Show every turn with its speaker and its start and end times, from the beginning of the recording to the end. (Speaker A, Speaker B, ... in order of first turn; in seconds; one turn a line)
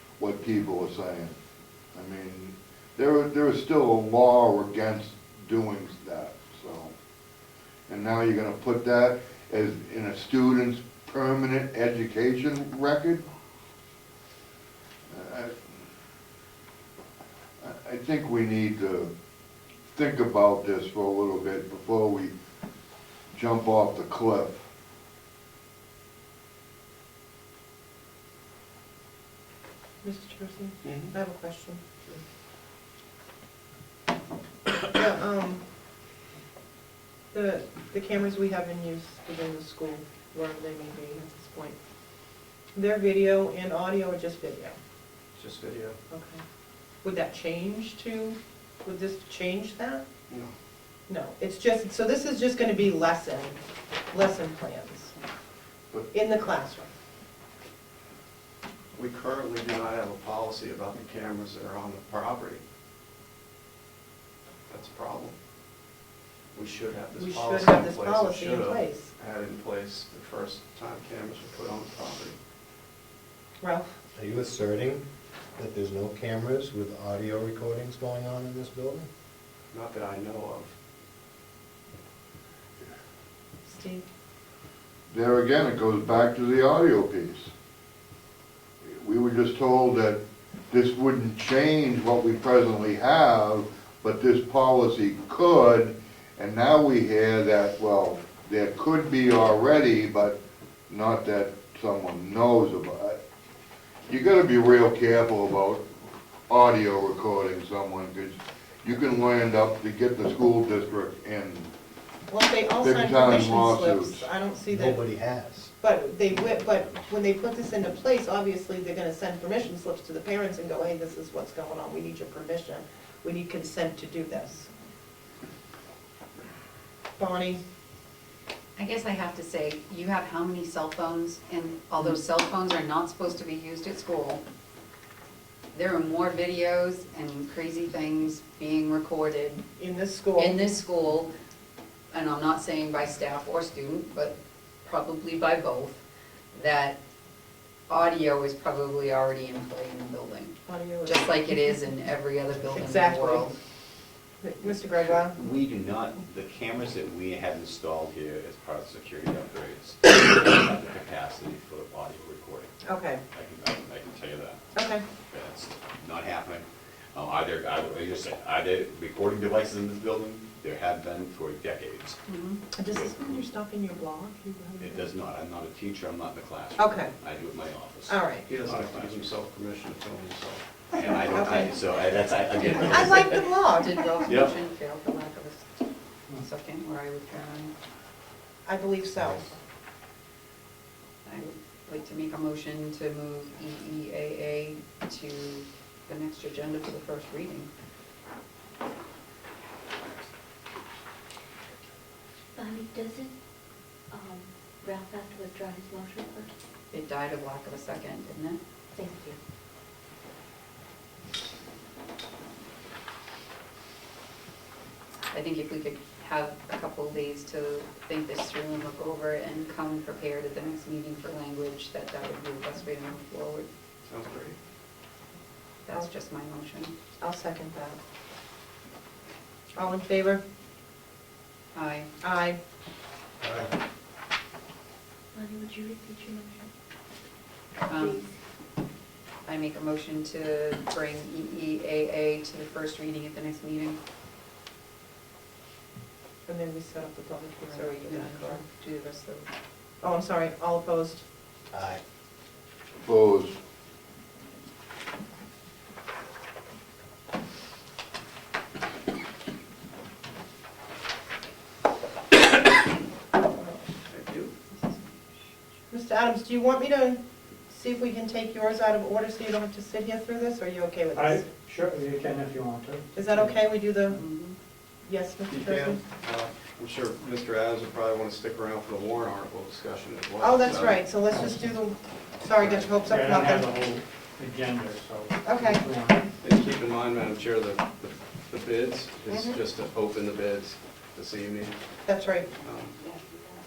Speaker A: 0.2-1.4
Speaker A: 1.9-6.9
Speaker A: 7.9-13.3
Speaker A: 15.1-15.6
Speaker A: 17.6-19.1
Speaker A: 19.9-22.3
Speaker A: 23.3-24.6
Speaker B: 30.0-32.2
Speaker C: 30.9-31.1
Speaker B: 34.8-35.6
Speaker B: 37.3-41.8
Speaker B: 42.8-44.8
Speaker C: 45.4-46.0
Speaker B: 46.1-46.4
Speaker B: 47.0-50.0
Speaker C: 50.3-50.5
Speaker B: 51.1-53.6
Speaker B: 54.1-55.1
Speaker B: 56.1-56.9
Speaker C: 58.9-62.6
Speaker C: 64.7-65.3
Speaker C: 66.5-72.4
Speaker B: 67.2-69.1
Speaker B: 73.6-73.9
Speaker D: 74.2-75.0
Speaker D: 75.6-79.1
Speaker C: 79.7-80.7
Speaker B: 83.7-84.0
Speaker A: 85.1-87.5
Speaker A: 88.8-100.4
Speaker A: 100.9-103.2
Speaker A: 104.1-105.9
Speaker A: 106.5-111.7
Speaker B: 112.3-115.0
Speaker A: 112.8-114.3
Speaker D: 114.7-115.7
Speaker B: 115.8-124.7
Speaker B: 127.2-127.6
Speaker E: 128.8-134.4
Speaker E: 135.7-139.7
Speaker B: 139.8-140.6
Speaker E: 140.4-141.3
Speaker E: 142.1-146.0
Speaker E: 146.5-147.0
Speaker E: 147.9-153.6
Speaker B: 150.7-151.4
Speaker B: 152.7-153.5
Speaker B: 154.4-155.4
Speaker F: 154.6-162.7
Speaker B: 162.8-163.2
Speaker F: 163.3-164.6
Speaker B: 164.8-165.0
Speaker F: 165.3-172.2
Speaker E: 172.3-172.8
Speaker B: 172.7-175.1
Speaker F: 172.8-173.5
Speaker F: 174.8-179.4
Speaker B: 176.8-177.2
Speaker B: 178.1-178.5
Speaker C: 178.5-180.6
Speaker G: 178.7-179.0
Speaker F: 180.9-183.6
Speaker B: 181.0-181.8
Speaker E: 182.6-185.7
Speaker B: 182.8-184.1
Speaker F: 184.2-184.5
Speaker E: 186.3-187.7
Speaker B: 188.7-189.6
Speaker E: 191.2-197.7
Speaker H: 202.6-203.4
Speaker H: 204.1-206.5
Speaker E: 206.9-208.6
Speaker H: 208.9-209.4
Speaker E: 215.3-223.7
Speaker C: 224.1-224.6
Speaker E: 225.8-226.9
Speaker B: 227.2-228.0
Speaker B: 229.8-230.4
Speaker E: 231.7-232.1
Speaker B: 232.2-232.6
Speaker D: 233.4-233.7
Speaker H: 235.3-236.7
Speaker E: 237.9-238.2
Speaker H: 238.0-238.3
Speaker E: 239.5-244.0
Speaker B: 246.5-248.6
Speaker E: 247.7-249.5
Speaker B: 250.0-251.2
Speaker D: 251.7-252.0
Speaker A: 253.0-253.6
Speaker B: 263.4-263.8
Speaker C: 264.1-264.5
Speaker B: 265.9-271.5
Speaker G: 271.1-273.6
Speaker B: 273.1-274.2
Speaker E: 274.1-274.6
Speaker B: 275.0-276.0
Speaker C: 275.5-281.2
Speaker B: 280.4-283.7
Speaker G: 281.2-281.8
Speaker C: 282.6-282.9
Speaker G: 282.9-286.3
Speaker B: 285.4-285.8
Speaker C: 286.4-291.8
Speaker B: 289.3-289.6
Speaker B: 292.1-292.5
Speaker C: 292.6-293.0